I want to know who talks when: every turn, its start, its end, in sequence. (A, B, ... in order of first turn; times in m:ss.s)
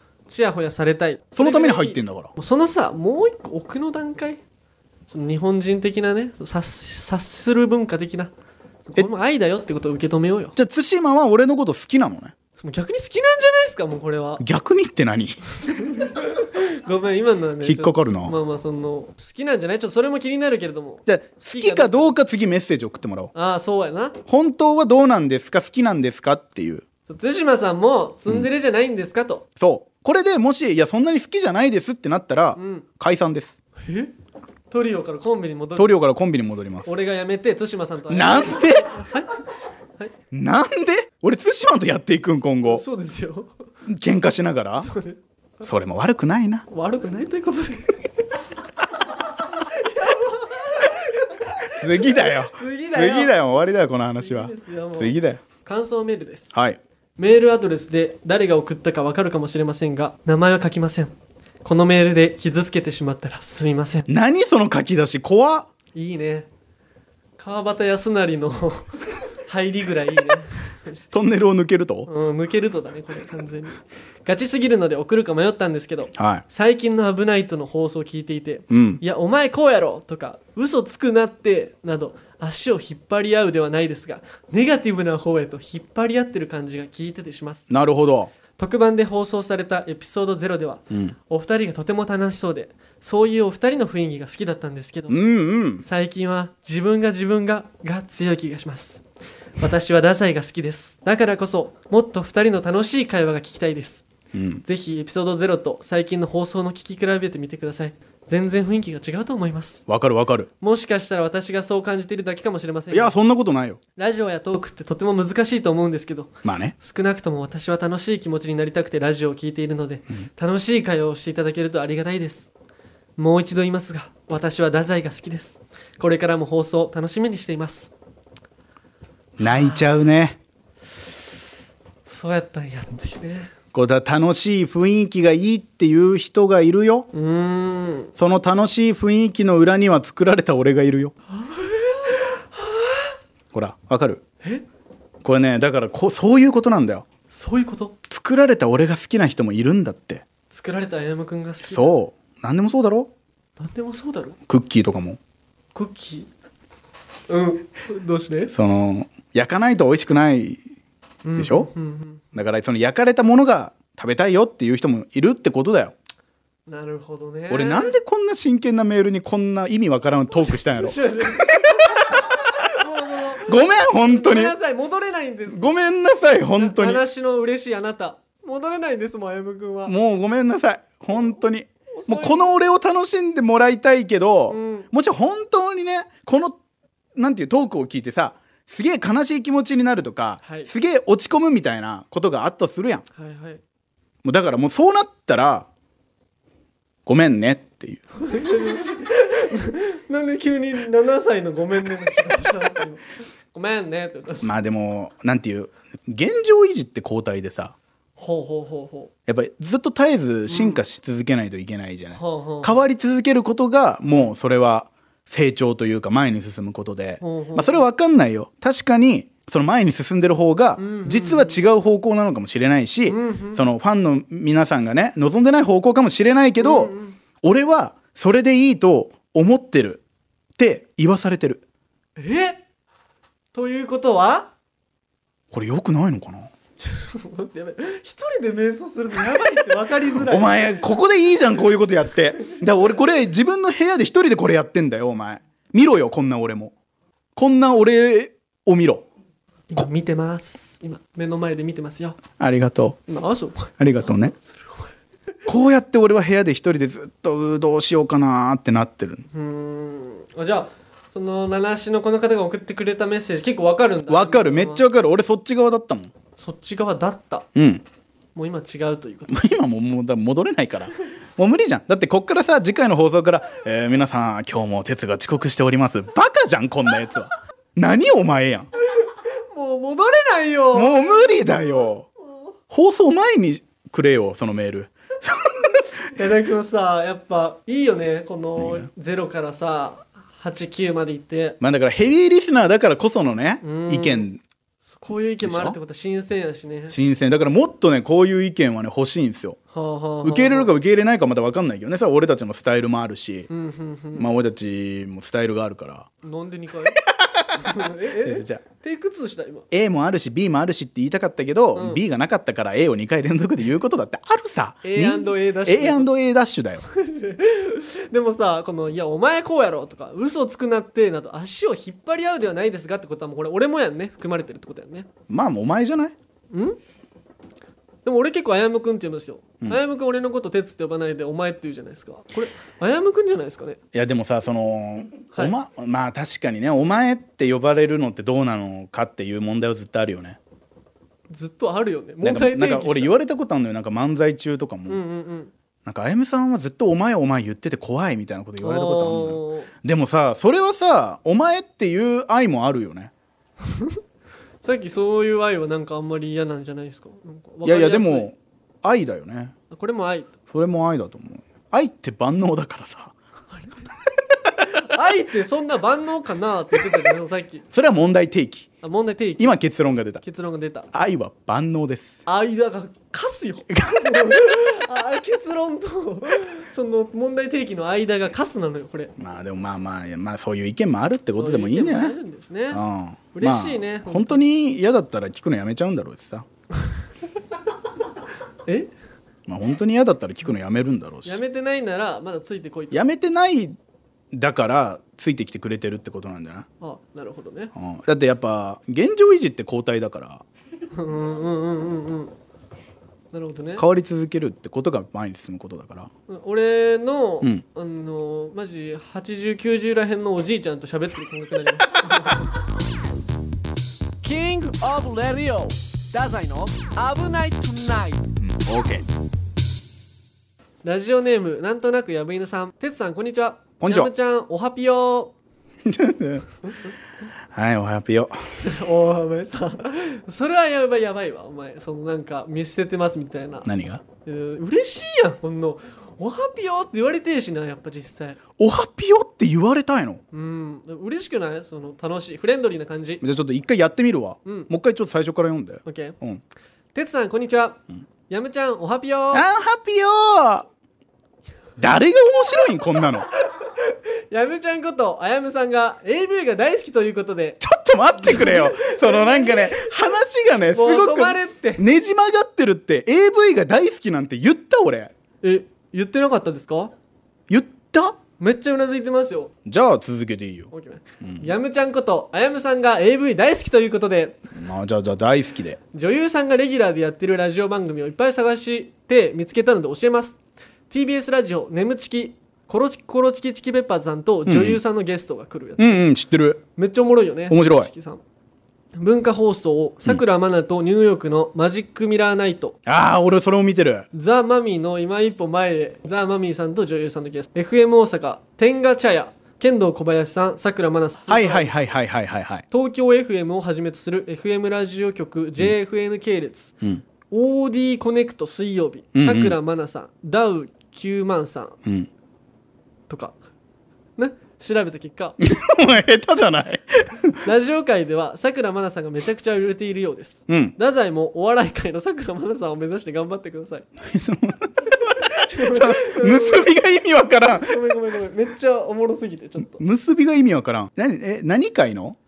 0:00.3-0:04.4 A
0:01.3-0:02.3 B
0:05.1-0:08.3 A
0:08.8-0:10.5 A
0:10.6-0:12.3 B
0:12.6-0:14.4 A
0:14.4-0:15.4 B
0:15.5-0:22.2 A
0:17.6-0:18.3 B
0:21.0-0:23.3 B
0:23.3-0:24.2 A
0:24.3-0:26.8 B
0:27.1-0:29.4 A
0:29.6-0:33.5 B
0:32.5-0:32.8 A
0:33.8-0:34.1 A
0:34.7-0:35.9 A
0:35.8-0:37.0 B
0:36.8-0:39.4 A
0:38.1-0:39.0 B
0:40.3-0:42.8 B
0:42.6-0:43.5 A
0:43.8-0:44.9 B
0:44.8-0:45.2 A
0:45.6-0:46.6 B
0:46.7-0:48.0 A
0:49.6-0:53.3 A
0:51.7-0:55.4 B
0:54.0-0:56.5 A
0:56.5-0:56.8 B
0:57.2-1:04.1 A
1:04.1-1:05.7 B
1:05.9-1:06.5 A
1:07.4-1:11.0 A
1:11.1-1:12.1 B
1:12.1-1:27.7 A
1:16.2-1:16.4 B
1:18.7-1:19.0 B
1:27.7-1:28.3 B
1:28.6-1:35.2 A
1:35.1-1:35.8 B
1:35.8-1:39.0 A
1:39.6-1:44.0 A
1:44.3-1:44.6 B
1:44.6-1:49.8 A
1:49.9-1:50.5 B
1:50.6-1:53.1 A
1:52.9-1:53.8 B
1:54.0-2:02.5 A
1:56.4-1:56.7 B
2:03.2-2:07.9 A
2:09.4-2:10.4 B
2:09.4-2:09.8 A
2:12.0-2:13.5 A
2:13.7-2:17.1 B
2:17.1-2:18.1 A
2:18.2-2:21.1 B
2:21.3-2:23.1 A
2:23.5-2:24.2 B
2:25.2-2:27.1 B
2:27.3-2:28.0 A
2:28.1-2:30.2 B
2:30.5-2:31.9 A
2:31.6-2:33.1 B
2:33.6-2:34.4 A
2:34.5-2:35.2 B
2:35.7-2:36.3 A
2:37.3-2:38.5 A
2:38.5-2:40.6 B
2:41.2-2:42.2 A
2:41.4-2:41.7 B
2:42.3-2:45.9 B
2:46.7-2:48.0 A
2:47.5-2:52.7 B
2:50.4-2:55.7 A
2:53.3-2:54.5 B
2:55.5-2:57.0 B
2:56.5-2:59.9 A
2:59.8-3:06.6 B
3:01.9-3:02.4 A
3:04.5-3:04.9 A
3:07.1-3:13.0 B
3:10.4-3:10.7 A
3:13.1-3:13.6 A
3:14.2-3:15.7 B
3:17.0-3:18.0 B
3:18.2-3:24.5 A
3:24.4-3:27.7 B
3:28.2-3:29.1 A
3:29.3-3:50.0 B
3:30.5-3:30.8 A
3:32.1-3:32.8 A
3:34.0-3:34.3 A
3:37.2-3:37.8 A
3:40.8-3:41.6 A
3:43.1-3:43.6 A
3:46.6-3:47.2 A
3:50.6-3:51.6 B
3:52.2-3:52.6 A
3:53.5-3:54.5 A
3:55.5-3:56.5 B
3:56.8-4:00.7 A
4:00.0-4:06.7 B
4:07.4-4:09.0 B
4:09.7-4:12.2 A
4:12.4-4:13.0 B
4:13.1-4:13.7 A
4:13.8-4:14.3 B
4:14.3-4:14.9 A
4:15.4-4:19.2 B
4:19.3-4:24.8 A
4:24.1-4:26.1 B
4:26.4-4:27.5 A
4:27.5-4:27.8 B
4:28.3-4:29.5 A
4:29.3-4:38.7 B
4:39.0-4:42.5 A
4:40.7-4:42.1 B
4:42.7-4:45.9 B
4:46.1-4:51.6 A
4:48.6-4:48.9 B
4:51.6-4:54.4 B
4:53.6-4:54.3 A
4:54.9-4:57.0 A
4:55.4-4:55.8 B
4:56.9-4:59.6 B
4:59.7-5:00.7 A
5:00.2-5:03.5 B
5:03.5-5:04.3 A
5:04.2-5:06.1 B
5:06.2-5:07.0 A
5:07.0-5:08.6 B
5:07.5-5:09.6 A
5:09.7-5:16.8 B
5:11.7-5:12.0 A
5:14.8-5:16.1 A
5:16.8-5:25.1 A
5:25.3-5:26.1 B
5:26.5-5:26.8 A
5:28.0-5:33.8 A
5:33.9-5:40.4 B
5:41.3-5:43.1 A
5:42.2-5:45.0 B
5:44.9-5:45.5 A
5:45.8-5:53.1 B
5:48.6-5:49.7 A
5:53.6-5:54.0 A
5:54.6-5:58.3 A
5:57.6-5:59.5 B
5:59.7-6:00.3 A
6:00.5-6:03.1 B
6:03.5-6:03.8 A
6:04.4-6:04.8 B
6:04.7-6:07.6 A
6:07.7-6:08.7 B
6:08.8-6:09.6 A
6:09.4-6:10.2 B
6:10.2-6:10.9 A
6:10.9-6:12.2 B
6:12.2-6:19.1 A
6:13.7-6:14.7 B
6:19.2-6:22.2 B
6:21.4-6:22.8 A
6:22.7-6:26.5 B
6:23.3-6:24.4 A
6:29.5-6:31.4 B
6:31.2-6:33.0 A
6:32.9-6:33.8 B
6:34.3-6:36.7 B
6:36.8-6:37.7 A
6:37.7-6:40.4 B
6:40.9-6:42.3 A
6:43.3-6:43.8 A
6:43.8-6:46.1 B
6:46.3-6:52.5 A
6:54.2-6:58.3 A
6:58.4-6:59.1 B
7:00.8-7:05.3 A
7:03.8-7:04.1 B
7:05.8-7:06.5 B
7:07.5-7:08.4 B
7:08.6-7:13.7 A
7:13.6-7:14.0 B
7:14.2-7:18.4 A
7:18.6-7:20.2 B
7:20.3-7:23.2 A
7:23.2-7:26.4 B
7:24.4-7:24.7 A
7:25.8-7:26.2 A
7:26.9-7:29.5 A
7:29.3-7:30.7 B
7:31.8-7:33.3 B
7:33.4-7:37.6 A
7:37.6-7:45.1 B
7:38.1-7:39.9 A
7:40.7-7:41.8 A
7:45.4-7:46.9 A
7:47.5-7:48.2 B
7:48.4-7:49.5 A
7:49.6-7:51.5 B
7:50.7-7:54.4 A
7:54.5-7:55.8 B
7:55.9-8:00.4 A
8:00.9-8:06.0 A
8:04.4-8:04.8 B
8:05.8-8:06.6 B
8:06.8-8:08.2 A
8:07.5-8:07.9 B
8:09.0-8:12.8 A
8:12.8-8:14.1 B
8:14.1-8:21.7 A
8:21.3-8:22.6 B
8:22.7-8:26.7 A
8:27.3-8:31.8 A
8:29.1-8:29.6 B
8:33.1-8:33.4 A
8:34.2-8:35.4 A
8:35.4-8:37.4 B
8:37.4-8:43.9 A
8:40.5-8:40.7 B
8:44.0-8:48.0 B
8:45.2-8:46.7 A
8:47.5-8:49.8 A
8:49.7-8:52.2 B